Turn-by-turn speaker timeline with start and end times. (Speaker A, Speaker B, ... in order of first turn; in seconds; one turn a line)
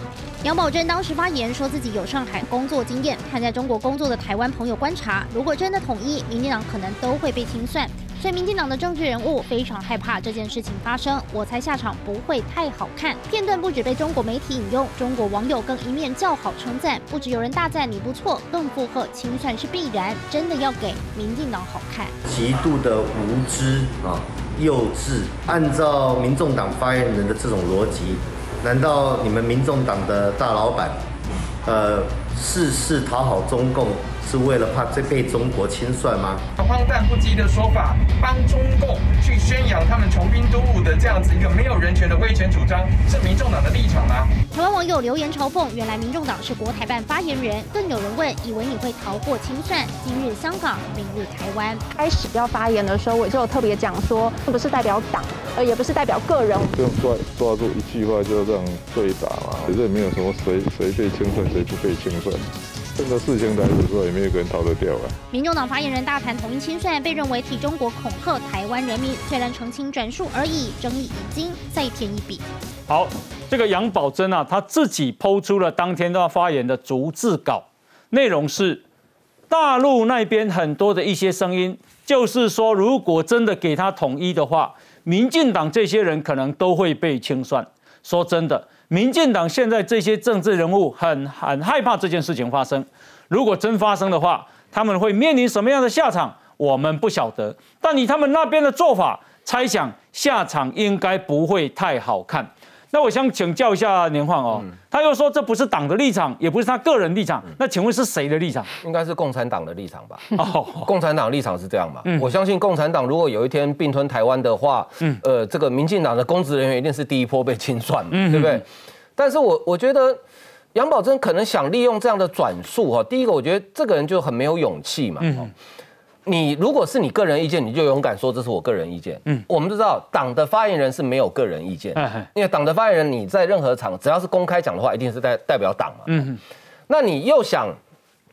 Speaker A: 0.4-22.1
Speaker B: 22.2-31.0
Speaker B: 31.6-36.4
Speaker C: 36.5-44.3
Speaker A: 44.5-51.8
Speaker D: 51.9-56.7
Speaker E: 56.7-65.2
Speaker A: 65.3-72.4
Speaker F: 72.9-78.8
Speaker F: 79.5-108.7
Speaker G: 108.8-110.2
Speaker F: 110.3-110.9
Speaker G: 110.8-118.6
Speaker F: 112.0-112.3
Speaker F: 118.1-118.6
Speaker G: 119.2-120.2
Speaker G: 120.7-125.5
Speaker F: 125.2-125.5
Speaker G: 126.2-136.3
Speaker F: 131.9-132.3
Speaker F: 136.1-136.4
Speaker G: 136.9-137.8